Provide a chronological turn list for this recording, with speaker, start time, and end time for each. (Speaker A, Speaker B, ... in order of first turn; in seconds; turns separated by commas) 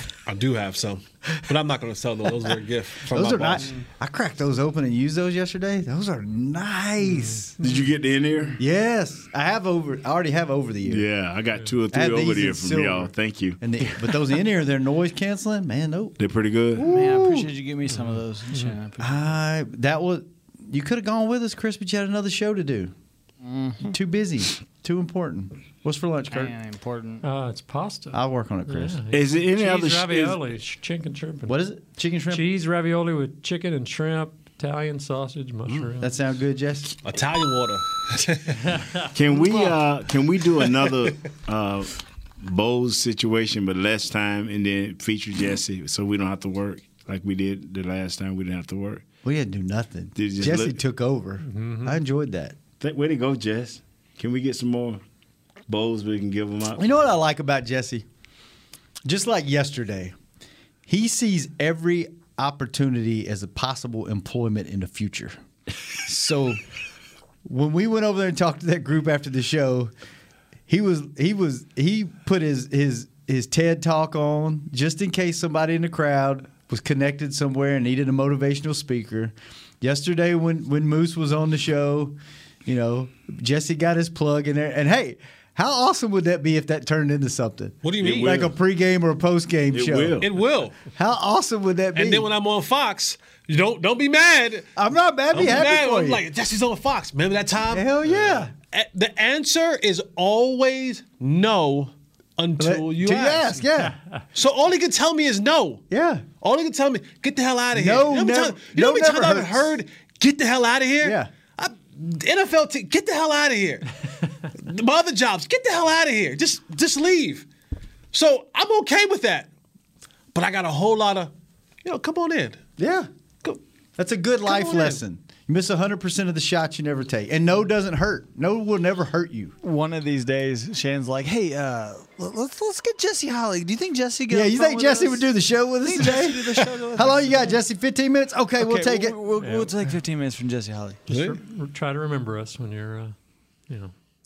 Speaker A: 0.2-3.7, Speaker B: 3.0-7.6, Speaker C: 7.1-7.8, Speaker D: 7.6-8.6, Speaker B: 8.6-11.1, Speaker D: 10.8-13.6, Speaker B: 11.9-16.2, Speaker D: 16.2-16.9, Speaker B: 16.7-17.5, Speaker E: 16.8-19.3, Speaker B: 19.0-22.9, Speaker E: 23.4-23.9, Speaker B: 23.8-26.5, Speaker E: 26.3-27.2, Speaker C: 27.2-31.6, Speaker B: 28.1-29.0, Speaker D: 29.1-30.4, Speaker B: 31.4-32.5, Speaker C: 32.3-36.1, Speaker B: 36.0-37.0, Speaker A: 37.0-38.8, Speaker C: 38.8-39.1, Speaker D: 39.1-49.0, Speaker B: 49.2-52.6, Speaker D: 50.2-50.8, Speaker C: 51.5-52.0, Speaker D: 52.8-55.0, Speaker D: 55.7-56.8, Speaker B: 56.8-58.0, Speaker B: 59.0-60.1, Speaker B: 60.9-65.3, Speaker B: 66.0-66.6, Speaker B: 67.4-69.9, Speaker B: 70.7-90.2, Speaker A: 87.8-88.4, Speaker D: 88.0-88.5, Speaker D: 89.7-90.3, Speaker A: 90.2-90.8, Speaker B: 90.9-92.3, Speaker A: 91.9-94.7, Speaker B: 94.8-96.2, Speaker A: 95.3-103.6, Speaker B: 97.7-98.5, Speaker B: 102.6-104.0, Speaker A: 104.3-105.8, Speaker B: 105.9-106.2, Speaker A: 106.4-113.9, Speaker B: 107.7-109.7, Speaker B: 111.0-111.3, Speaker A: 114.5-117.5, Speaker A: 118.1-119.5, Speaker A: 120.3-121.3, Speaker A: 121.8-122.6, Speaker B: 122.8-123.1, Speaker B: 124.0-129.6, Speaker A: 124.4-125.0, Speaker E: 129.6-137.5, Speaker B: 134.3-139.2, Speaker E: 138.6-141.4, Speaker C: 139.4-139.7, Speaker A: 141.1-141.4, Speaker C: 141.3-143.1